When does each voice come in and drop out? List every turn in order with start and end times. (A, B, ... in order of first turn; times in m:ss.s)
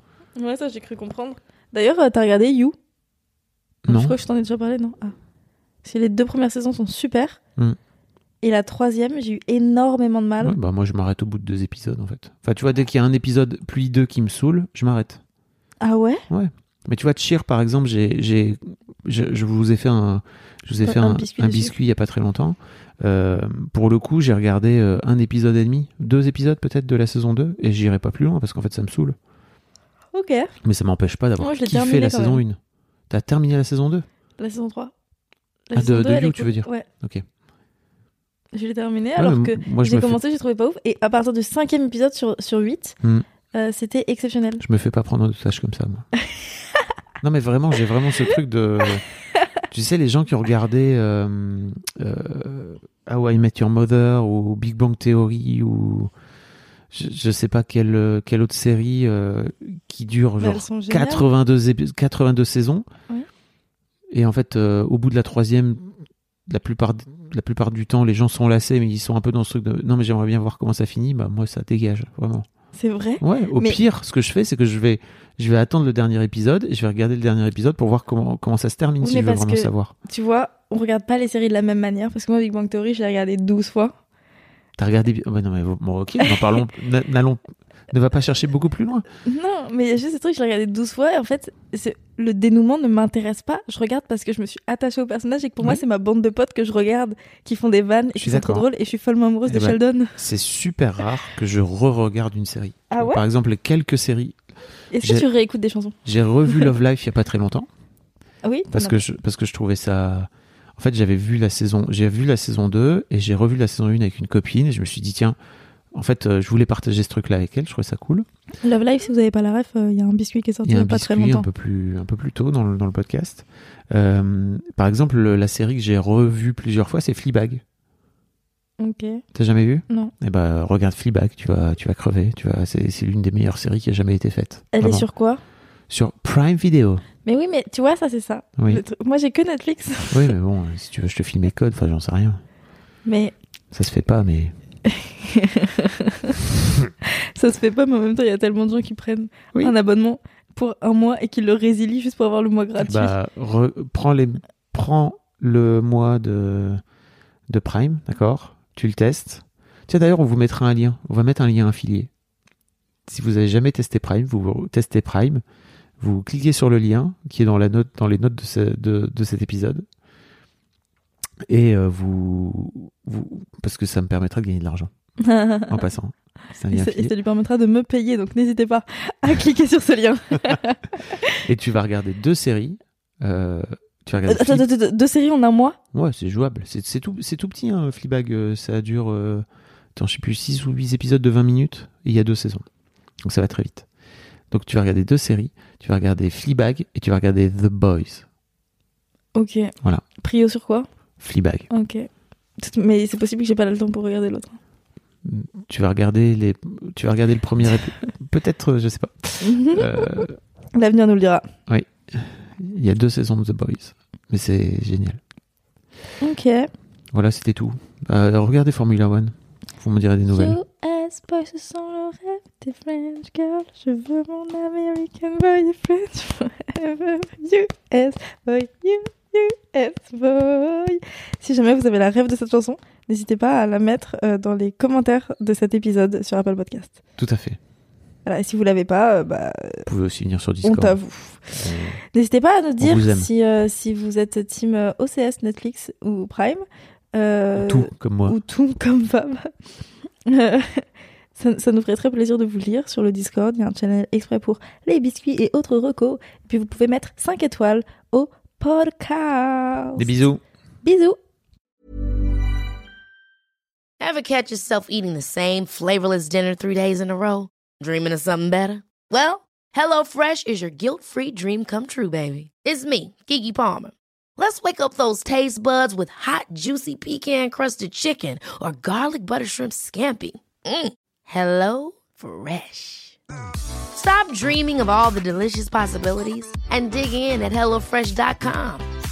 0:00.4-0:02.8 A
0:03.9-0:04.2 B
0:03.9-0:05.2 A
0:05.8-0:07.4 A
0:08.4-0:10.6 A
0:10.4-0:15.2 B
0:15.8-0:16.2 A
0:16.3-0:29.2 B
0:20.8-0:21.7 A
0:30.1-0:30.6 A
0:30.6-0:32.6 B
0:31.4-0:32.4 A
0:33.1-0:34.1 B
0:34.4-0:34.9 A
0:35.7-0:36.9 A
0:35.7-0:37.2 B
0:38.5-0:43.0 A
0:39.2-0:40.2 B
0:43.5-0:44.6 A
0:44.6-0:46.0 B
0:47.2-0:49.0 B
0:49.7-0:56.1 B
0:56.9-1:02.8 B
1:00.4-1:01.3 A
1:04.1-1:05.9 B
1:06.5-1:12.5 B
1:12.8-1:13.8 A
1:13.2-1:19.9 B
1:19.0-1:23.9 A
1:24.8-1:29.0 B
1:29.2-1:40.2 A
1:38.2-1:38.7 B
1:39.5-1:44.4 B
1:42.9-1:43.2 A
1:44.9-1:46.0 A
1:45.0-1:45.3 B
1:46.0-1:47.7 B
1:46.5-1:46.7 A
1:48.4-1:49.0 A
1:48.7-1:55.4 B
1:55.9-1:58.3 B
1:58.6-2:01.5 A
2:00.6-2:07.6 B
2:08.8-2:09.2 A
2:09.3-2:15.1 B
2:14.7-2:15.4 A
2:15.9-2:17.0 B
2:17.2-2:20.3 A
2:20.1-2:22.4 B
2:23.0-2:23.4 A
2:23.7-2:24.5 B
2:24.9-2:26.3 A
2:27.1-2:33.2 A
2:32.8-2:36.8 B
2:37.5-2:42.1 B
2:43.1-2:45.4 B
2:46.0-2:49.8 B
2:51.5-2:54.9 B
2:55.2-2:55.9 A
2:55.7-2:57.1 B
2:56.7-3:01.3 A
3:01.4-3:04.7 B
3:04.3-3:05.8 A
3:05.9-3:09.4 B
3:10.0-3:12.6 B
3:13.2-3:13.9 B
3:14.5-3:18.3 B
3:19.4-3:20.9 A
3:21.2-3:21.7 B
3:21.7-3:22.1 A
3:22.6-3:24.6 A
3:25.2-3:30.4 B
3:29.4-3:30.2 A
3:30.7-3:31.5 A
3:31.7-3:35.2 B
3:36.2-3:36.7 A
3:37.1-3:40.6 B
3:40.3-3:57.0 A
3:57.2-3:57.6 B
3:58.2-3:59.9 A
3:59.9-4:01.0 B
4:00.6-4:01.5 A
4:01.5-4:02.0 B
4:02.1-4:06.6 A
4:02.8-4:03.3 B
4:07.1-4:09.5 A
4:07.6-4:08.4 B
4:10.3-4:20.1 A
4:20.0-4:20.4 B
4:20.8-4:21.2 A
4:24.0-4:43.2 C
4:43.9-4:48.9 C